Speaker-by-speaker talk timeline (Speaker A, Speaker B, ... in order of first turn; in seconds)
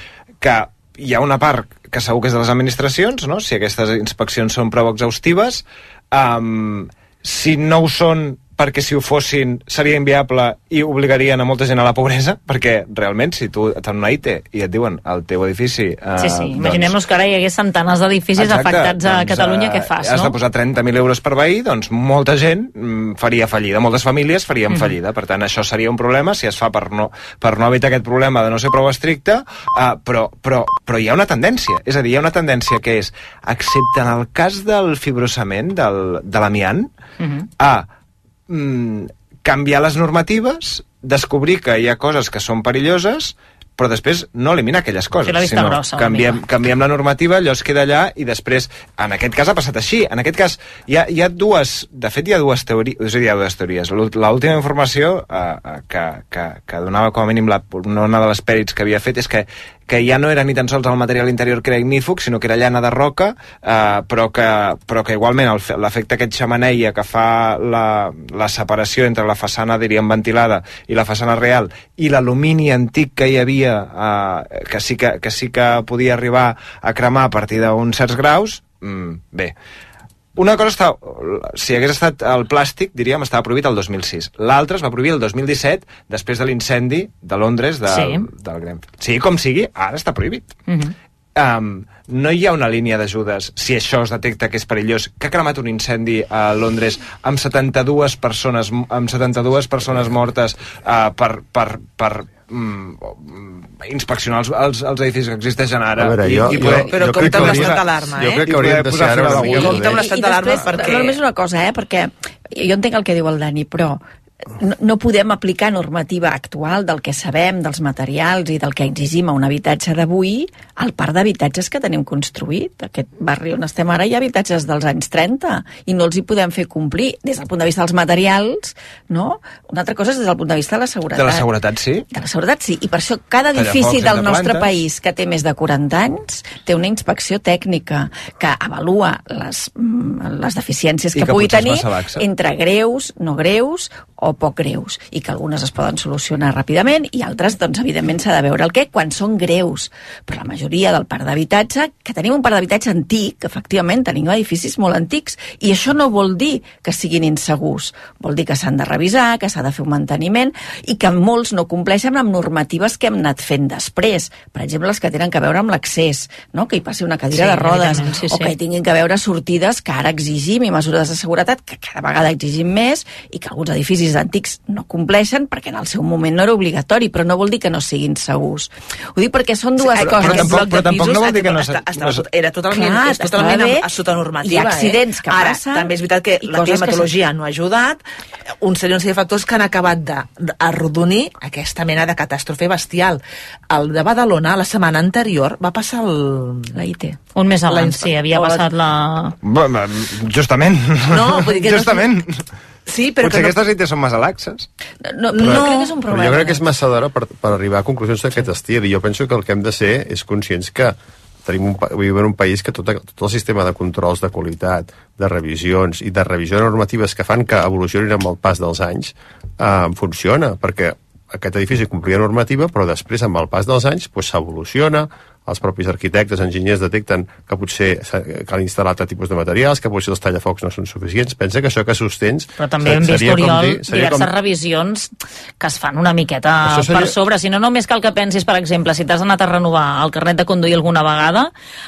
Speaker A: 0.4-16.9, 18.4-36.9, 37.6-37.9, 38.5-79.5, 80.3-90.5, 91.3-107.8, 108.4-109.8, 131.2-132.1, 133.5-134.7, 141.1-142.2, 180.0-182.2, 199.4-202.4, 203.2-204.7
Speaker B: 16.2-20.3, 45.3-46.4, 87.9-88.2, 90.7-90.9, 167.3-168.5, 197.3-199.3, 232.6-241.5
Speaker C: 106.0-110.0, 205.5-234.3, 236.6-237.2
Speaker D: 106.5-108.5, 109.3-111.2, 179.8-188.0, 188.6-196.8, 197.7-198.6, 201.1-202.2, 202.8-203.6, 205.3-206.0
Speaker E: 109.9-114.0, 114.6-131.5, 132.1-180.7, 182.7-183.9, 184.4-187.1, 196.7-197.2, 205.1-206.6